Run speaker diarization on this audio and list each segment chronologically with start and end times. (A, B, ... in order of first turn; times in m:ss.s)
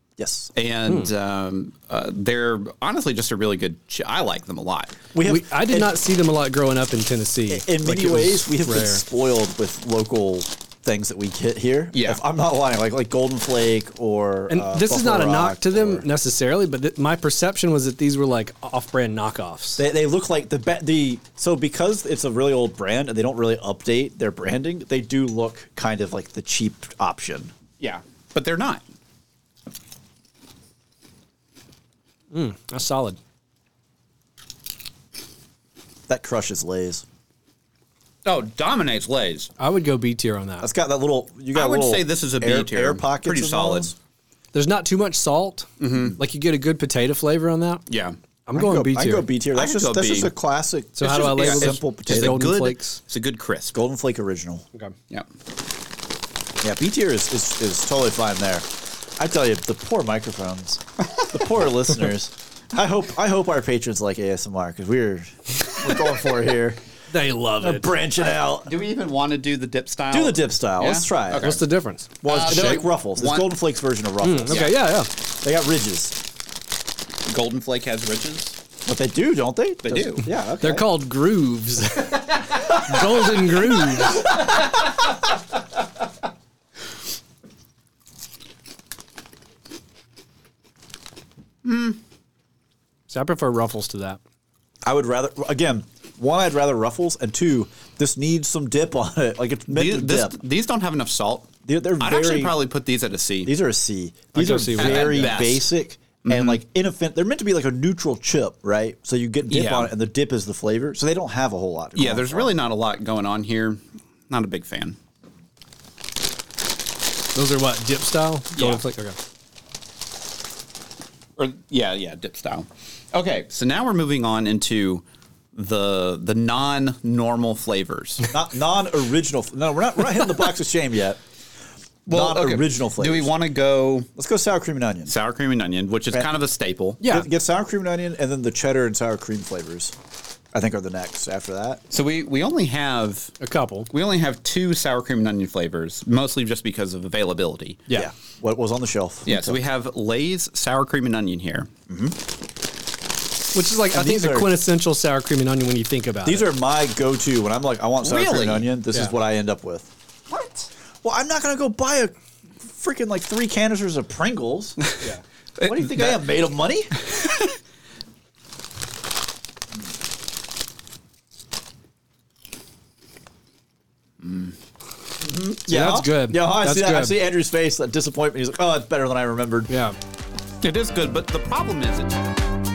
0:00.2-0:00.5 A
0:00.5-0:05.0 B
0:05.1-0:06.0 A
0:05.2-0:09.0 C
0:07.5-0:16.0 A
0:11.9-0:12.2 B
0:14.5-0:19.8 C
0:19.8-0:27.5 A
0:27.8-0:28.8 B
0:32.3-0:33.2 C
0:36.1-0:37.0 A
0:38.2-0:39.5 B
0:39.6-0:40.7 C
0:40.6-0:43.9 A
0:41.5-0:43.9 B
0:44.5-0:47.8 C
0:45.8-0:46.2 B
0:47.9-0:48.2 B
0:48.4-0:49.3 C
0:48.6-0:52.5 A
0:49.5-0:50.3 B
0:51.0-0:53.0 C
0:51.0-0:53.8 B
0:53.7-0:54.6 A
0:56.6-1:06.8 A
1:07.1-1:07.9 C
1:07.6-1:08.7 A
1:08.6-1:11.6 B
1:10.1-1:11.5 A
1:11.4-1:12.8 C
1:12.2-1:14.9 A
1:12.2-1:13.5 B
1:14.2-1:15.1 C
1:14.5-1:14.8 B
1:15.4-1:16.2 A
1:17.2-1:18.6 B
1:18.8-1:21.0 A
1:19.8-1:20.2 B
1:20.2-1:24.3 C
1:31.6-1:32.0 B
1:33.1-1:34.2 C
1:34.8-1:40.4 A
1:39.7-1:41.5 B
1:41.6-1:42.6 A
1:42.0-1:43.5 B
1:43.4-1:52.7 A
1:44.3-1:45.3 C
1:44.7-1:45.7 B
1:46.2-1:46.6 B
1:49.5-1:49.9 B
1:52.0-1:55.0 B
1:57.3-1:59.2 C
1:58.5-1:58.8 B
2:01.4-2:08.2 B
2:08.3-2:11.2 A
2:12.0-2:14.1 B
2:12.1-2:13.3 A
2:14.2-2:15.1 A
2:15.1-2:17.0 B
2:17.0-2:17.3 C
2:17.0-2:19.9 A
2:20.5-2:21.8 A
2:21.9-2:23.3 B
2:23.4-2:23.9 C
2:23.9-2:27.8 B
2:27.9-2:29.6 A
2:29.2-2:31.7 B
2:31.9-2:32.2 A
2:33.5-2:36.5 C
2:33.9-2:34.5 A
2:36.2-2:39.9 A
2:38.0-2:38.7 B
2:40.3-2:40.7 B
2:41.0-2:42.1 A
2:42.7-2:44.8 A
2:45.6-2:46.3 B
2:45.6-2:46.9 A
2:47.2-2:47.4 B
2:54.2-2:54.5 B
2:55.2-2:59.7 A
2:55.7-2:57.2 C
2:59.7-3:00.0 C
3:00.6-3:02.2 B